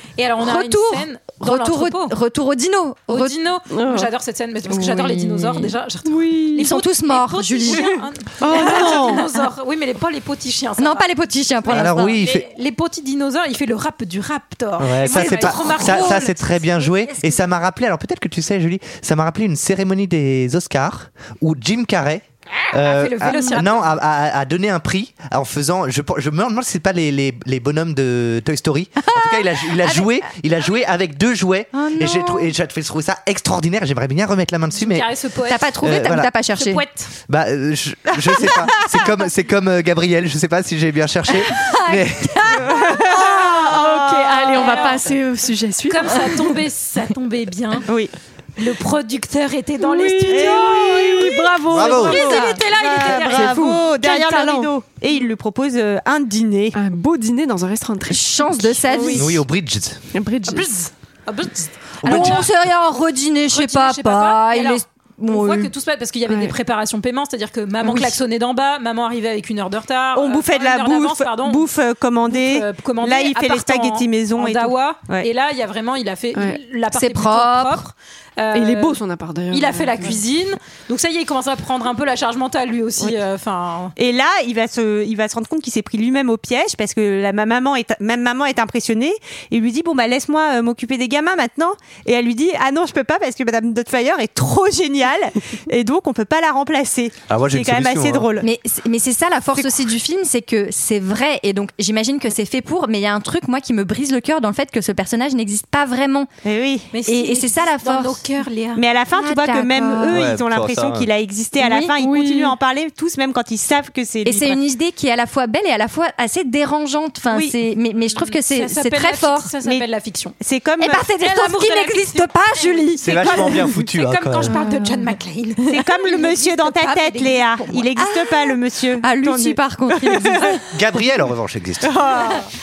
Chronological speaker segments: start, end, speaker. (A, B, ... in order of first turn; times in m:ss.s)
0:00.2-0:02.1 A
0:00.4-0:03.3 B
0:03.1-0:11.1 A
0:03.7-0:04.1 C
0:04.7-0:05.7 B
0:06.0-0:06.6 C
0:06.6-0:07.9 B
0:08.4-0:09.3 C
0:08.6-0:09.0 B
0:10.8-0:12.2 B
0:11.6-0:16.4 A
0:11.7-0:12.5 D
0:14.8-0:35.1 D
0:15.1-0:17.3 B
0:22.7-0:23.8 A
0:29.0-0:30.1 B
0:31.7-0:32.5 B
0:34.7-0:35.7 A
0:35.5-0:36.8 B
0:35.8-0:36.3 D
0:36.6-0:37.1 A
0:37.3-0:42.6 D
0:41.4-0:42.7 B
0:42.6-0:45.0 E
0:43.0-0:46.6 C
0:44.5-0:45.0 A
0:45.9-0:47.9 A
0:47.9-0:48.1 E
0:48.6-0:53.8 A
0:49.8-0:52.5 C
0:50.3-0:56.8 E
0:51.7-0:52.3 D
0:53.1-0:54.7 C
0:56.7-0:59.3 C
0:58.1-0:59.3 B
0:59.1-1:00.0 D
1:00.1-1:00.8 C
1:00.5-1:02.5 A
1:02.0-1:02.5 D
1:02.0-1:05.7 B
1:03.5-1:11.7 A
1:06.3-1:06.5 C
1:10.1-1:15.3 E
1:12.2-1:19.0 A
1:16.3-1:16.6 C
1:16.9-1:17.8 B
1:18.5-1:20.2 C
1:19.5-1:23.9 A
1:24.0-1:38.5 E
1:37.3-1:38.3 D
1:38.4-1:46.3 B
1:39.6-1:39.8 E
1:46.4-1:46.9 E
1:46.9-1:48.8 A
1:47.1-1:48.2 B
1:48.8-1:54.6 E
1:49.1-1:50.2 B
1:50.1-1:51.1 D
1:51.6-1:51.9 B
1:52.0-1:52.6 C
1:54.2-1:59.5 B
1:57.3-1:57.6 E
1:58.1-2:00.4 A
2:00.4-2:01.1 E
2:00.8-2:03.4 B
2:01.2-2:07.9 A
2:03.0-2:04.6 D
2:04.5-2:04.9 C
2:05.7-2:10.6 E
2:08.0-2:10.6 B
2:10.7-2:12.0 D
2:11.8-2:12.4 E